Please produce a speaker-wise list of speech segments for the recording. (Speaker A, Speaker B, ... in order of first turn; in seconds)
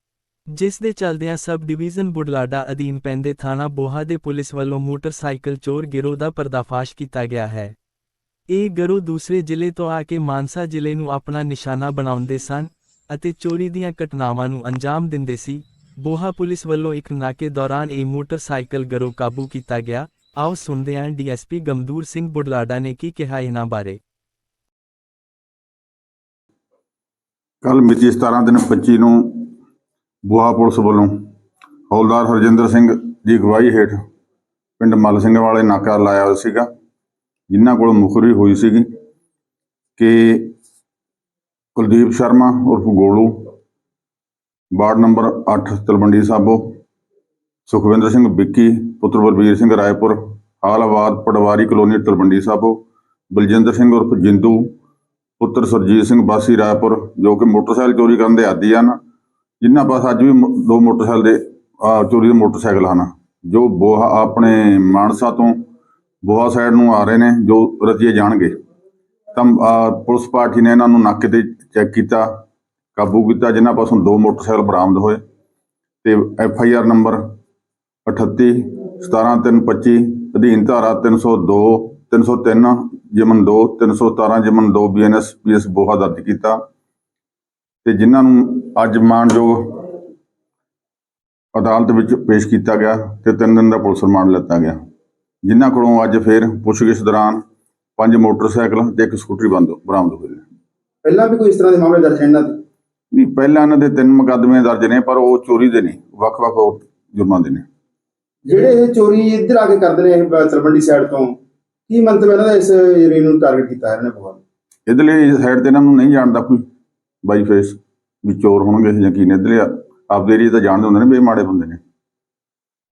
Speaker A: 0.5-7.7, 8.5-24.0
Speaker B: 27.6-29.5, 30.2-31.2, 31.9-34.0, 34.8-36.7, 37.5-38.9, 40.0-40.5, 41.8-43.5, 44.7-46.8, 47.7-54.7, 55.4-59.0, 59.6-65.6, 66.2-68.5, 69.3-72.3, 73.0-75.2, 76.0-77.2, 78.0-86.6, 87.8-89.9, 91.5-94.8, 95.5-97.4, 98.0-100.4, 103.1-107.6, 114.9-116.6, 117.2-121.8
Speaker C: 101.0-102.6, 108.5-111.3, 111.9-114.4